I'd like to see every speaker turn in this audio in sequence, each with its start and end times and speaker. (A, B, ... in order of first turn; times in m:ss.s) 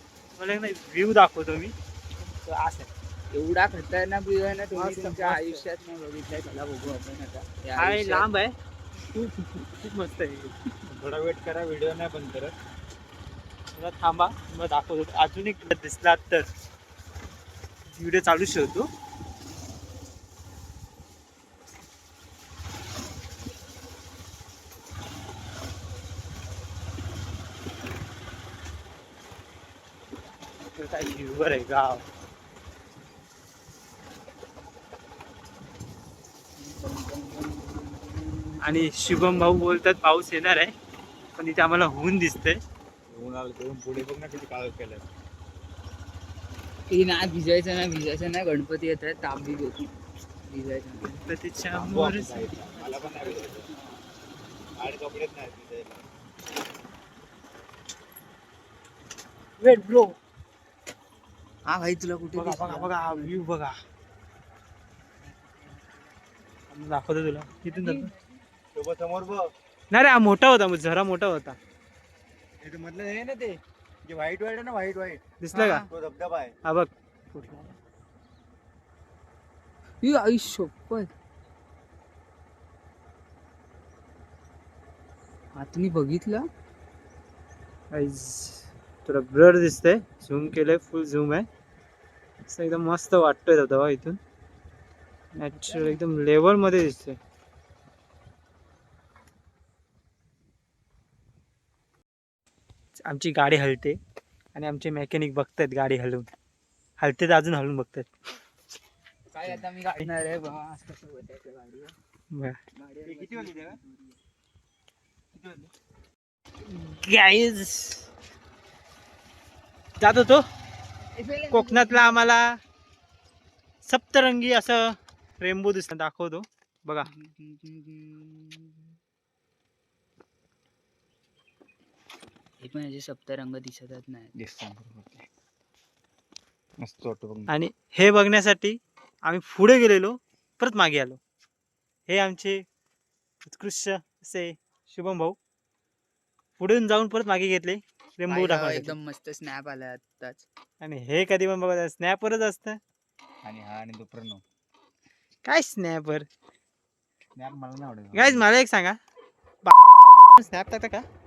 0:00.4-0:02.9 A
0:03.3-0:08.3 B
0:04.7-0:05.7 A
0:07.8-0:08.5 A
0:09.1-0:10.6 A
0:10.9-0:12.5 C
0:13.8-0:16.5 A
0:17.9-0:18.9 A
0:30.8-0:32.0 A
0:36.6-0:38.6 B
0:38.6-0:40.7 A
0:41.4-0:42.6 A
0:43.1-0:45.1 C
0:46.9-0:51.2 B
0:51.1-0:52.4 A
0:51.7-0:53.7 C
0:52.5-0:54.0 B
0:54.8-0:56.0 C
0:59.6-1:00.2 A
1:01.7-1:03.4 B
1:02.4-1:03.8 A
1:05.2-1:06.0 B
1:06.7-1:08.1 A
1:07.6-1:08.4 B
1:08.8-1:09.5 C
1:09.9-1:11.6 A
1:12.6-1:15.2 C
1:15.4-1:15.8 A
1:15.5-1:15.9 B
1:15.9-1:16.5 C
1:16.6-1:17.8 A
1:20.0-1:21.1 B
1:25.6-1:26.4 B
1:27.9-1:31.5 A
1:32.5-1:34.2 A
1:35.4-1:37.2 A
1:35.6-1:36.0 B
1:43.0-1:44.0 A
1:44.5-1:46.3 A
1:47.0-1:48.1 A
1:49.3-1:51.9 B
1:52.3-1:52.6 A
1:52.8-1:54.2 B
1:53.0-1:53.8 C
1:55.4-1:55.7 C
1:56.6-1:58.1 A
2:00.0-2:00.4 A
2:01.2-2:02.3 B
2:01.5-2:02.6 A
2:03.8-2:07.1 A
2:07.0-2:08.9 B
2:12.6-2:14.3 B
2:14.4-2:15.3 C
2:16.8-2:17.5 C
2:17.5-2:21.2 A
2:22.1-2:22.6 A
2:23.4-2:25.4 A
2:26.6-2:29.0 A
2:28.3-2:30.4 B
2:30.8-2:32.8 A
2:33.4-2:34.4 C
2:35.4-2:36.3 A
2:37.4-2:38.5 C
2:38.1-2:39.0 A
2:40.2-2:41.0 A